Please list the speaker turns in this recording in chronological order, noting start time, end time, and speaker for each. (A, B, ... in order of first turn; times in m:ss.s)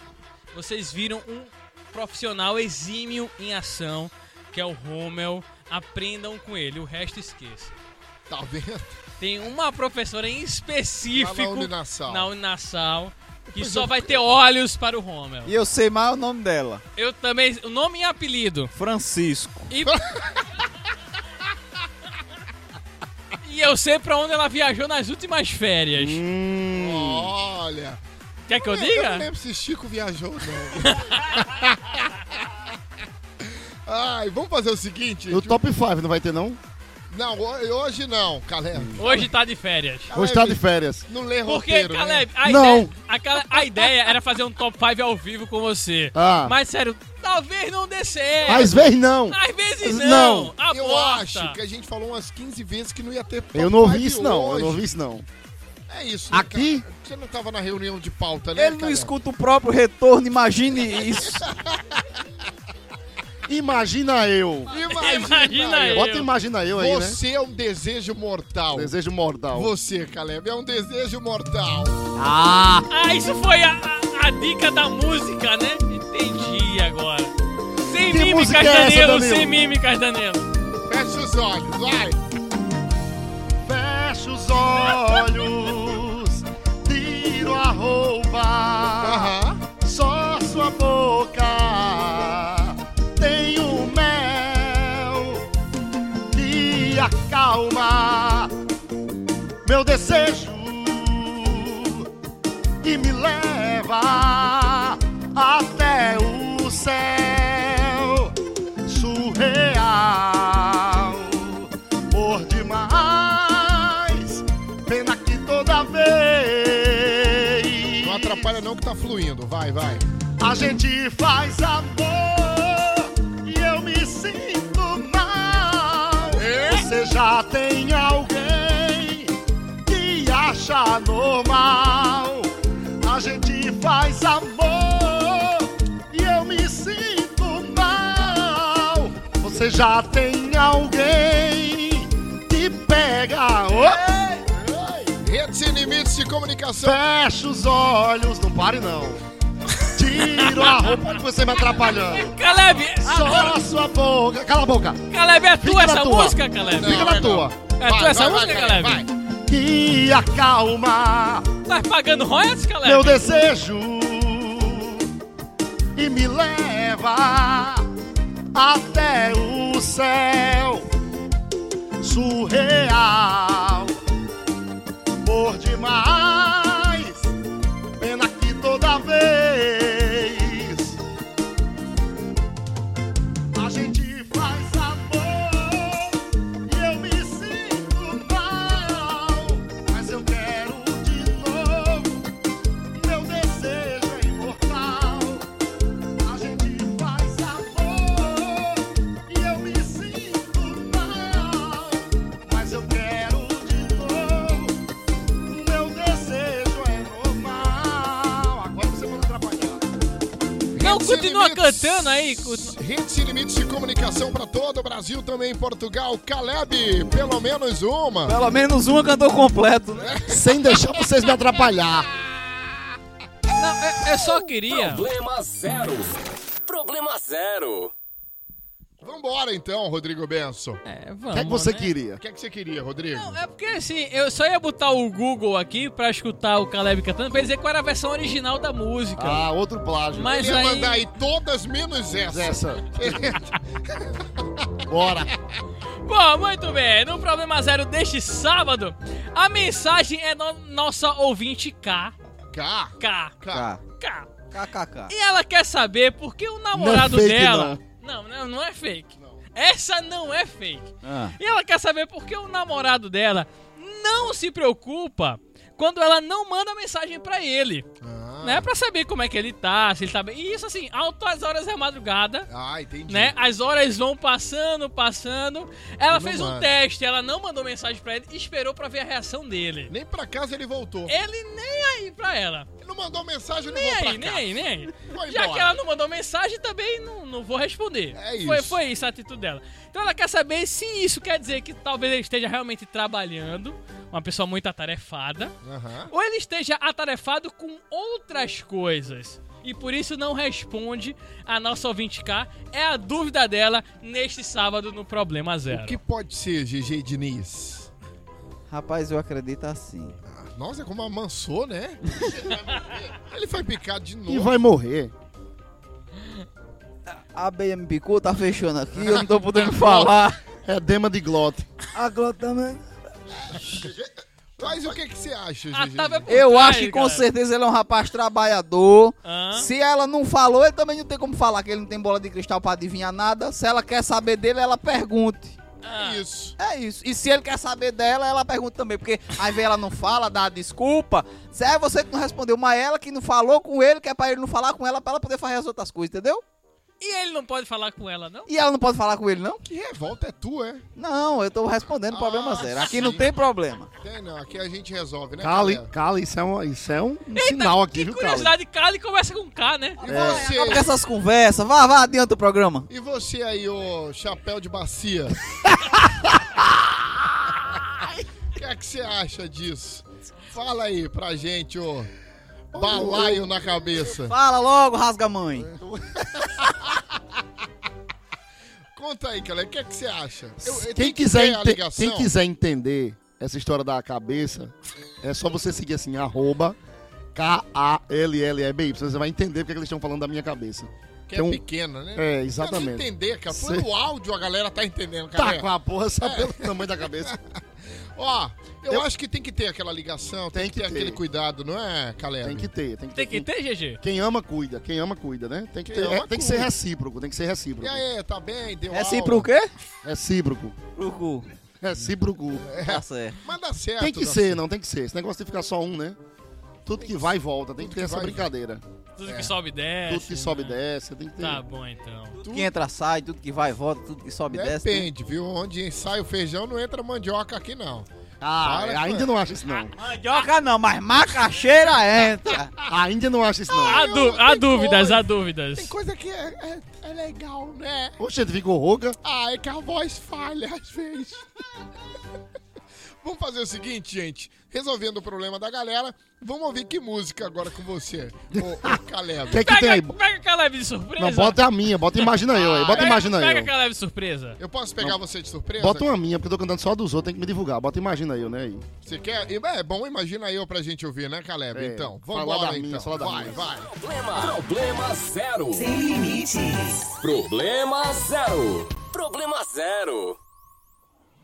0:00.5-0:07.7 A
0:08.3-0:09.0 B
0:09.2-0:15.5 A
0:11.1-0:12.3 B
0:13.5-0:14.2 B
0:15.4-0:16.8 C
0:17.0-0:18.7 A
0:18.8-0:19.7 C
0:19.7-0:20.0 A
0:23.4-0:26.2 A
0:26.0-0:27.3 D
0:26.7-0:28.0 B
0:28.5-0:29.3 A
0:28.6-0:32.4 B
0:30.8-0:31.1 A
0:33.4-0:35.6 B
0:35.3-0:36.6 D
0:37.1-0:39.3 B
0:38.8-0:39.0 D
0:39.0-0:40.1 A
0:40.1-0:42.3 B
0:40.1-0:41.1 D
0:41.5-0:51.6 A
0:42.4-0:42.9 D
0:46.1-0:46.6 D
0:48.4-0:50.6 D
0:50.7-0:54.8 B
0:53.5-0:55.3 D
0:55.9-0:59.1 B
0:56.3-0:56.8 D
0:58.6-1:01.4 C
1:01.6-1:01.8 B
1:03.5-1:04.7 D
1:04.7-1:06.0 B
1:04.9-1:06.3 A
1:05.9-1:07.2 D
1:06.8-1:08.9 B
1:08.7-1:09.7 D
1:09.5-1:12.0 B
1:12.2-1:12.9 D
1:12.9-1:20.5 A
1:17.9-1:19.6 D
1:20.9-1:22.2 B
1:23.6-1:35.4 D
1:29.0-1:29.6 B
1:36.3-1:38.6 D
1:39.6-1:42.1 D
1:42.8-1:58.6 D
1:58.0-2:00.0 B
2:00.4-2:24.8 D
2:06.4-2:06.9 B
2:25.2-2:27.0 B
2:26.8-2:29.2 D
2:29.9-2:32.4 D
2:30.2-2:31.0 A
2:31.9-2:33.6 A
2:33.0-2:35.0 D
2:35.1-2:39.0 A
2:35.6-2:37.6 D
2:36.8-2:39.1 B
2:39.5-2:41.5 D
2:41.7-2:43.4 A
2:42.8-2:45.1 D
2:46.0-2:47.9 D
2:48.5-2:50.9 D
2:52.0-2:54.0 D
2:55.2-2:57.3 D
2:58.0-3:01.0 D
3:03.5-3:12.2 D
3:12.9-3:15.5 D
3:16.2-3:24.8 D
3:25.5-3:29.9 D
3:30.8-3:38.4 B
3:30.8-3:32.8 A
3:38.3-3:40.1 C
3:40.0-3:41.1 B
3:40.3-3:42.1 D
3:43.6-3:45.1 A
3:44.7-3:47.9 E
3:49.0-3:50.8 B
3:50.8-3:51.9 A
3:51.3-3:52.2 D
3:52.2-3:53.3 B
3:53.1-3:59.4 A
3:59.2-4:00.5 D
4:00.1-4:01.1 A
4:00.3-4:04.1 B
4:02.3-4:03.3 D
4:04.9-4:05.3 D
4:06.0-4:12.1 A
4:12.5-4:13.7 B
4:13.0-4:13.4 A
4:13.5-4:13.8 C
4:14.0-4:14.3 A
4:14.5-4:15.1 C
4:15.1-4:27.9 A
4:16.7-4:17.8 D
4:21.0-4:21.4 C
4:28.0-4:28.7 B
4:28.4-4:32.5 A
4:32.5-4:33.3 B
4:33.1-4:39.9 A
4:36.1-4:36.7 B
4:39.9-4:41.1 B
4:41.1-4:42.7 A
4:42.8-4:45.7 B
4:43.7-4:55.5 A
4:48.2-4:48.8 B
4:55.6-4:56.1 B
4:56.1-5:06.0 A
5:05.7-5:07.9 B
5:08.7-5:10.2 C
5:10.3-5:12.0 B
5:12.2-5:13.1 D
5:13.2-5:14.5 B
5:14.3-5:15.1 D
5:17.1-5:20.4 C
5:19.0-5:20.2 B
5:20.6-5:21.7 D
5:22.0-5:22.8 C
5:23.5-5:25.0 D
5:24.6-5:26.4 B
5:25.7-5:27.3 A
5:26.3-5:35.6 C
5:29.2-5:29.7 A
5:35.8-5:36.2 A
5:35.9-5:36.6 B
5:36.6-5:46.4 C
5:47.0-5:48.5 A
5:48.5-5:49.6 C
5:49.6-5:50.8 B
5:51.0-5:53.9 C
5:52.1-5:53.3 B
5:54.0-5:55.9 B
5:55.4-5:58.5 D
5:57.4-6:00.0 A
6:00.0-6:00.9 B
6:00.0-6:02.9 C
6:00.1-6:00.5 D
6:02.9-6:05.5 B
6:08.6-6:12.1 B
6:12.7-6:13.5 D
6:12.8-6:14.4 B
6:14.3-6:15.7 C
6:15.7-6:16.7 D
6:19.0-6:22.3 B
6:20.6-6:26.8 D
6:27.3-6:31.6 D
6:31.3-6:35.7 B
6:32.2-6:33.9 D
6:35.4-6:37.4 D
6:36.2-6:37.6 B
6:38.2-6:42.7 B
6:40.5-6:41.2 D
6:42.4-6:43.5 D
6:43.2-6:44.0 A
6:44.0-6:48.0 D
6:45.9-6:46.7 B
6:47.8-6:49.5 B
6:48.9-6:49.7 C
6:50.0-6:50.8 D
6:51.0-6:51.5 C
6:51.8-6:52.6 D
6:52.6-6:54.6 B
6:52.8-6:53.4 C
6:54.0-6:56.2 D
6:56.9-6:58.8 D
6:57.0-6:58.5 B
6:59.2-7:00.8 A
6:59.3-6:59.5 B
7:00.1-7:01.6 D
7:01.4-7:02.4 A
7:02.4-7:05.1 C
7:02.4-7:02.7 B
7:04.5-7:08.1 B
7:08.4-7:09.9 D
7:08.6-7:09.5 B
7:10.0-7:12.7 C
7:12.9-7:14.1 D
7:13.7-7:15.2 B
7:13.8-7:15.9 A
7:15.8-7:18.2 B
7:18.2-7:19.2 D
7:19.2-7:21.4 B
7:23.2-7:29.6 B
7:28.6-7:30.2 D
7:29.5-7:31.6 A
7:31.2-7:33.7 D
7:32.5-7:33.2 B
7:32.9-7:34.6 A
7:34.6-7:36.1 B
7:35.8-7:38.8 D
7:39.0-7:44.5 B
7:41.7-7:43.6 D
7:43.5-7:50.4 E